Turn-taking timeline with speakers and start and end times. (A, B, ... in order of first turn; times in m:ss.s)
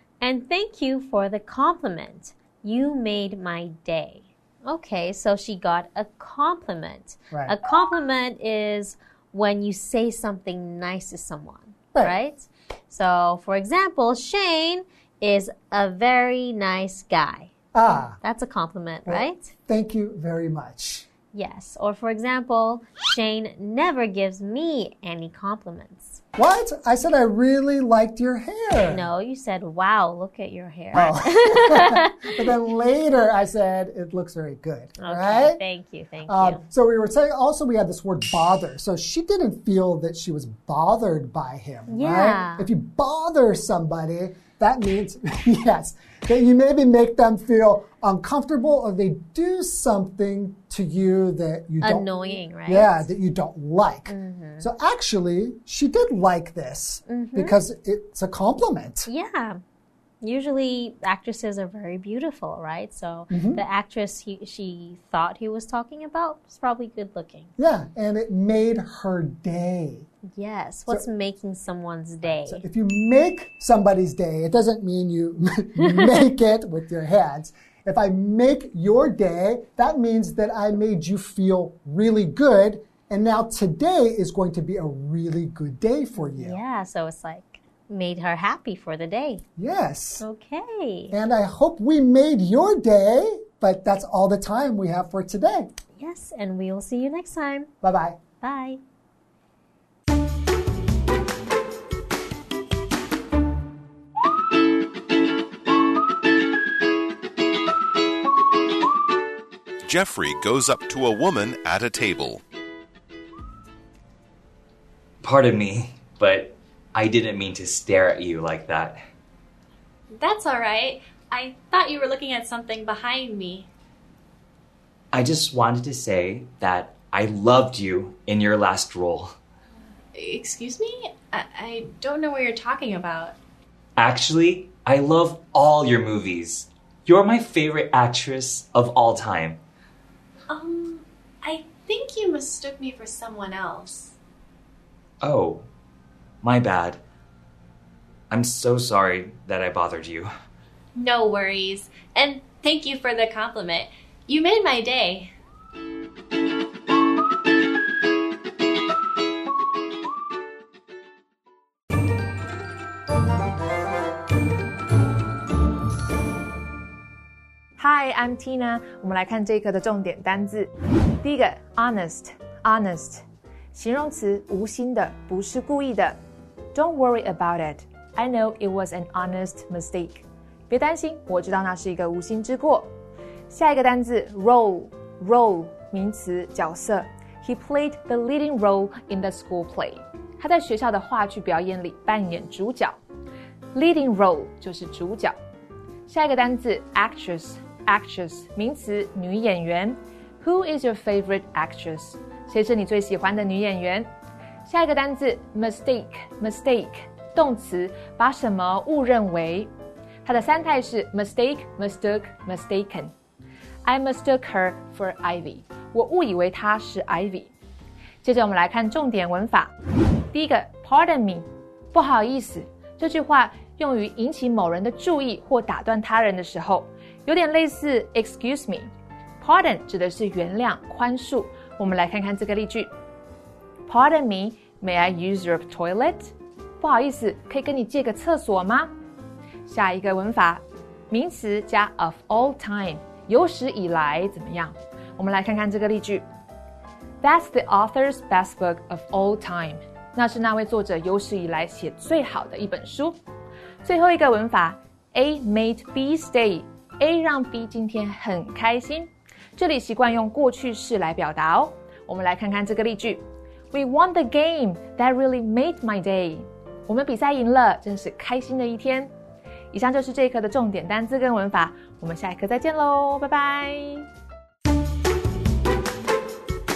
0:00.2-0:17.5 A
0:07.3-0:07.6 B
0:17.7-0:18.2 B
0:18.2-0:19.5 A
0:19.0-0:21.0 B
0:21.3-0:26.2 A
0:26.4-0:29.1 B
0:28.8-0:32.3 A
0:30.9-0:35.6 B
0:35.0-0:36.6 A
0:36.3-0:59.1 B
0:41.9-0:42.7 A
0:51.8-0:53.1 A
0:54.1-0:54.7 A
0:57.1-0:57.5 A
0:59.1-0:59.6 A
1:00.2-1:07.5 A
1:03.3-1:03.6 B
1:07.6-1:10.1 B
1:10.3-1:12.6 A
1:12.2-1:26.6 B
1:15.8-1:16.2 A
1:26.2-1:29.4 A
1:29.6-1:30.2 B
1:30.2-1:31.2 A
1:31.1-1:35.7 B
1:36.0-1:37.7 A
1:37.8-1:38.2 B
1:38.4-1:38.8 A
1:49.8-1:52.4 C
1:55.2-1:59.0 D
2:00.1-2:03.7 E
2:05.1-2:09.3 D
2:10.1-2:13.4 E
2:14.0-2:19.6 D
2:20.5-2:24.2 E
2:25.2-2:25.7 D
2:26.4-2:27.0 D
2:28.3-2:30.3 D
2:30.9-2:35.3 E
2:47.8-2:50.7 F
2:51.2-2:53.2 F
2:53.7-2:56.2 F
2:56.7-3:02.9 F
3:03.5-3:13.0 F
3:13.7-3:15.3 F
3:16.1-3:24.1 F
3:24.6-3:29.7 F
3:30.2-3:33.1 F
3:33.8-3:37.5 F
3:38.2-3:39.7 F
3:40.3-3:48.9 F
3:49.4-3:52.9 F
3:53.9-3:58.9 F
3:59.7-4:06.2 F
4:07.2-4:13.2 F
4:13.8-4:29.1 F
4:29.7-4:34.1 F